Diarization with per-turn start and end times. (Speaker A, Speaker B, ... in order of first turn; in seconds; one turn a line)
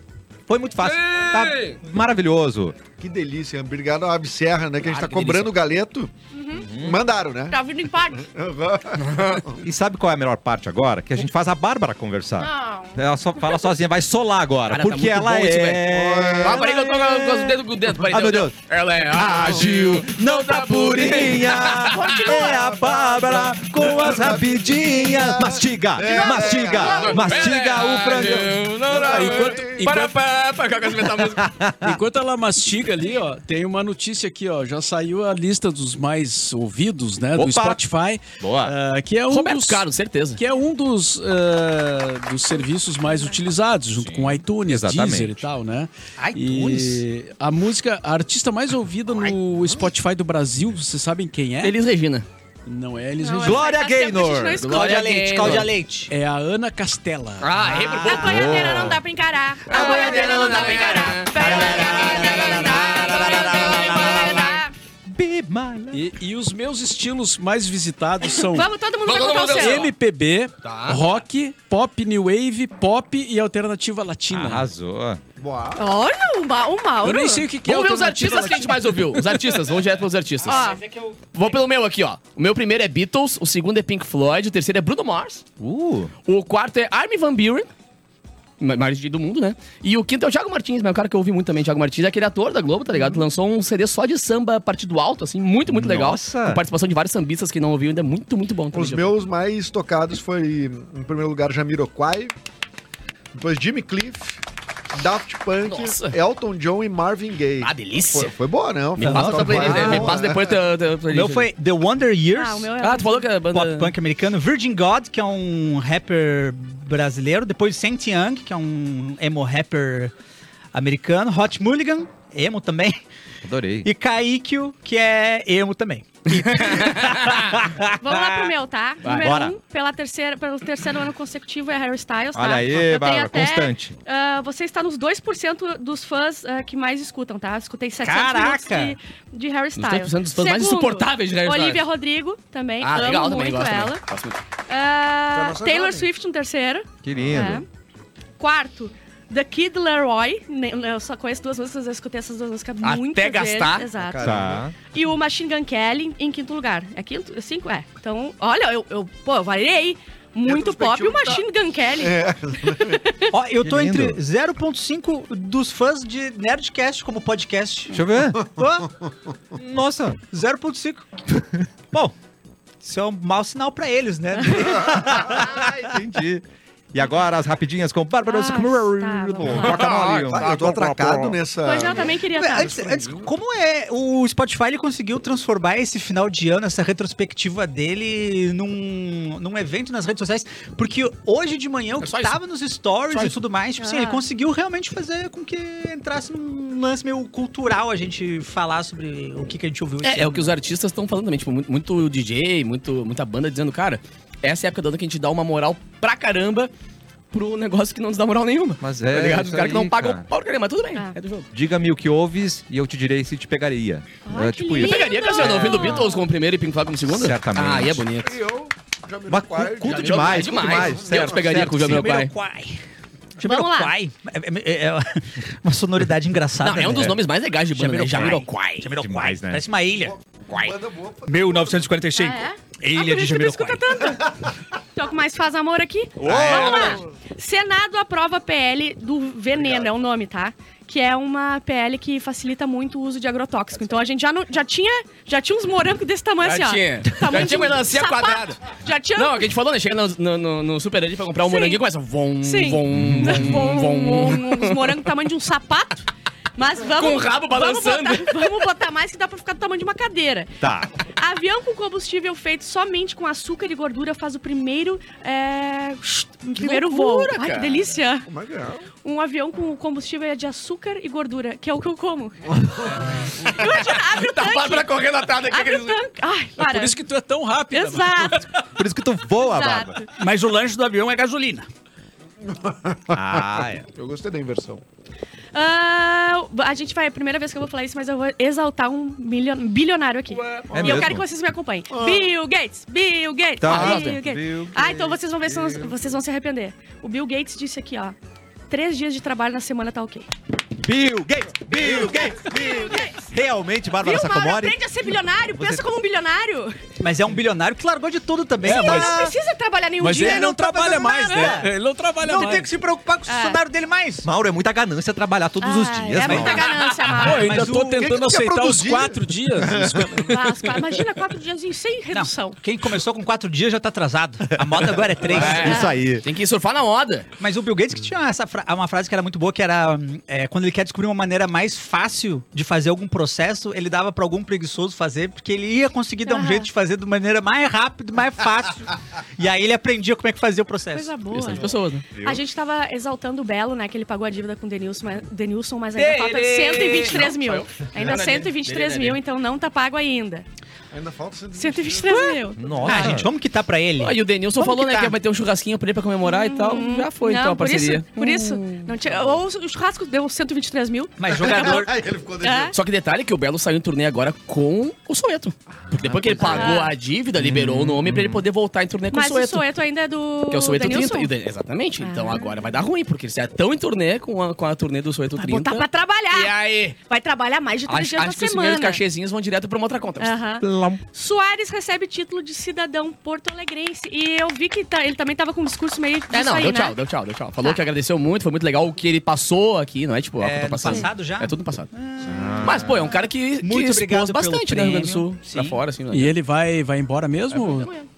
Speaker A: 0.5-2.8
Speaker B: 0.8-1.8
Speaker C: 3.0-6.1
Speaker B: 4.8-5.6
Speaker D: 6.3-6.7
Speaker A: 6.6-7.0
Speaker C: 6.8-9.6
Speaker D: 7.5-8.3
Speaker B: 9.0-9.4
Speaker A: 9.6-18.6
Speaker D: 12.4-13.7
Speaker B: 14.7-15.8
Speaker C: 15.9-16.8
Speaker B: 16.4-22.3
Speaker A: 19.1-28.6
Speaker D: 22.0-22.3
Speaker C: 22.1-27.3
Speaker D: 26.1-27.2
Speaker B: 26.7-31.5
Speaker C: 28.9-29.9
Speaker E: 28.9-30.2
Speaker A: 31.3-32.0
Speaker E: 31.8-39.9
Speaker A: 37.4-37.8
Speaker A: 38.4-38.8
Speaker B: 39.3-40.4
Speaker E: 40.4-51.8
Speaker D: 43.1-43.4
Speaker A: 44.0-45.5
Speaker F: 46.2-47.0
Speaker B: 51.6-52.3
Speaker E: 52.7-53.6
Speaker D: 53.2-55.1
Speaker A: 53.4-54.7
Speaker B: 54.6-55.7
Speaker F: 54.6-56.1
Speaker E: 56.1-57.6
Speaker B: 57.4-58.9
Speaker A: 57.6-59.0
Speaker D: 58.0-64.7
Speaker B: 59.7-63.3
Speaker F: 59.7-60.7
Speaker A: 61.4-64.5
Speaker F: 61.4-64.6
Speaker A: 65.1-66.0
Speaker E: 65.9-68.7
Speaker D: 68.2-69.9
Speaker B: 69.0-69.9
Speaker E: 69.5-74.7
Speaker B: 70.6-71.0
Speaker A: 74.3-75.2
Speaker C: 75.4-75.9
Speaker D: 75.8-77.5
Speaker E: 77.0-79.6
Speaker B: 77.7-80.8
Speaker D: 80.4-80.8
Speaker B: 81.3-85.4
Speaker A: 85.6-86.1
Speaker B: 86.3-87.7
Speaker B: 88.6-99.1
Speaker A: 95.7-96.6
Speaker C: 98.7-102.3
Speaker C: 103.3-104.4
Speaker C: 104.9-110.6
Speaker B: 105.7-106.2
Speaker B: 107.6-108.3
Speaker B: 109.0-111.5
Speaker F: 109.0-110.2
Speaker F: 111.1-112.7
Speaker D: 112.3-113.3
Speaker B: 112.8-113.9
Speaker F: 113.5-120.1
Speaker F: 120.7-123.0
Speaker A: 123.5-123.9
Speaker F: 123.8-128.5
Speaker B: 126.3-127.4
Speaker D: 128.0-144.0
Speaker A: 129.2-129.6
Speaker A: 132.3-134.0
Speaker F: 138.0-139.0
Speaker B: 139.8-141.9
Speaker B: 142.8-144.4
Speaker D: 144.7-147.7
Speaker C: 145.3-146.1
Speaker A: 147.0-147.7
Speaker C: 147.1-147.4
Speaker D: 148.4-163.3
Speaker B: 152.8-153.9
Speaker C: 154.0-154.7
Speaker A: 154.2-154.8
Speaker C: 160.5-161.4
Speaker C: 162.0-163.0
Speaker F: 163.3-168.9
Speaker A: 163.6-164.2
Speaker A: 167.9-168.5
Speaker A: 169.6-170.2
Speaker F: 170.3-171.2
Speaker F: 172.8-175.9
Speaker A: 174.7-181.4
Speaker D: 178.2-179.8
Speaker C: 179.4-183.3
Speaker B: 179.5-180.7
Speaker D: 181.6-182.8
Speaker F: 182.3-200.5
Speaker B: 192.0-192.4
Speaker B: 193.1-193.4
Speaker D: 193.8-194.2
Speaker B: 200.0-206.7
Speaker B: 207.3-211.5
Speaker A: 208.8-210.2
Speaker A: 211.5-215.9
Speaker D: 214.2-216.3
Speaker B: 214.8-218.4
Speaker A: 217.1-218.1
Speaker C: 218.2-221.7
Speaker A: 219.3-222.1
Speaker B: 219.8-222.3
Speaker F: 221.6-222.8
Speaker F: 223.4-227.2
Speaker D: 223.4-223.9
Speaker B: 226.6-228.9
Speaker F: 227.7-230.1
Speaker A: 229.0-229.6
Speaker C: 230.1-231.8
Speaker F: 231.3-233.9
Speaker D: 232.2-234.3
Speaker D: 234.9-249.5
Speaker A: 236.2-237.0
Speaker B: 236.2-237.0
Speaker B: 246.4-248.6
Speaker B: 249.2-255.0
Speaker D: 251.4-251.8
Speaker D: 252.4-256.1
Speaker A: 252.9-253.6
Speaker D: 256.6-260.5
Speaker B: 256.9-258.5
Speaker A: 260.6-260.9
Speaker D: 261.1-268.3
Speaker B: 266.5-267.9
Speaker C: 268.3-268.9
Speaker D: 269.0-277.0
Speaker C: 272.5-273.1
Speaker B: 273.4-276.0
Speaker E: 276.6-278.5
Speaker D: 277.7-278.5
Speaker A: 278.8-280.1
Speaker D: 279.4-280.1
Speaker F: 280.2-281.7
Speaker C: 282.4-284.8
Speaker A: 283.1-283.9
Speaker D: 285.5-298.2
Speaker B: 290.4-290.7
Speaker C: 290.7-291.1
Speaker A: 290.7-291.2
Speaker C: 291.9-292.3
Speaker A: 293.6-296.0
Speaker B: 293.7-294.2
Speaker D: 298.7-300.3
Speaker A: 300.8-304.8
Speaker D: 301.8-303.3
Speaker D: 304.0-306.8
Speaker A: 305.5-305.8
Speaker F: 307.0-309.3
Speaker E: 308.6-309.3
Speaker D: 308.6-311.6
Speaker E: 310.0-312.7
Speaker F: 310.1-314.3
Speaker D: 313.3-313.6
Speaker A: 314.2-316.8
Speaker D: 315.6-317.6
Speaker F: 316.2-318.2
Speaker E: 317.1-320.8
Speaker C: 318.0-320.4
Speaker D: 320.2-322.6
Speaker F: 322.1-325.8
Speaker B: 325.3-327.3
Speaker A: 325.3-326.2
Speaker D: 325.4-325.9
Speaker F: 327.4-341.1
Speaker D: 336.3-336.7
Speaker D: 340.9-350.5
Speaker B: 341.3-342.1
Speaker A: 341.5-342.4
Speaker B: 346.0-349.2
Speaker C: 350.9-352.3
Speaker D: 351.6-353.2
Speaker A: 352.6-353.3
Speaker F: 352.8-355.1
Speaker B: 354.0-358.9
Speaker D: 356.2-361.9
Speaker F: 361.2-361.9
Speaker C: 361.3-362.8
Speaker D: 362.4-362.8
Speaker B: 362.7-369.6
Speaker C: 365.9-366.5
Speaker D: 366.4-366.9
Speaker A: 367.4-368.4
Speaker D: 369.1-371.3
Speaker B: 370.5-377.0
Speaker D: 372.0-372.7
Speaker D: 375.4-379.0
Speaker B: 377.9-380.4
Speaker D: 380.2-387.0
Speaker A: 380.6-381.0
Speaker B: 386.3-391.9
Speaker F: 390.4-392.9
Speaker A: 392.2-393.2
Speaker B: 392.6-396.3
Speaker F: 393.6-395.8
Speaker E: 396.1-397.9
Speaker B: 397.5-398.1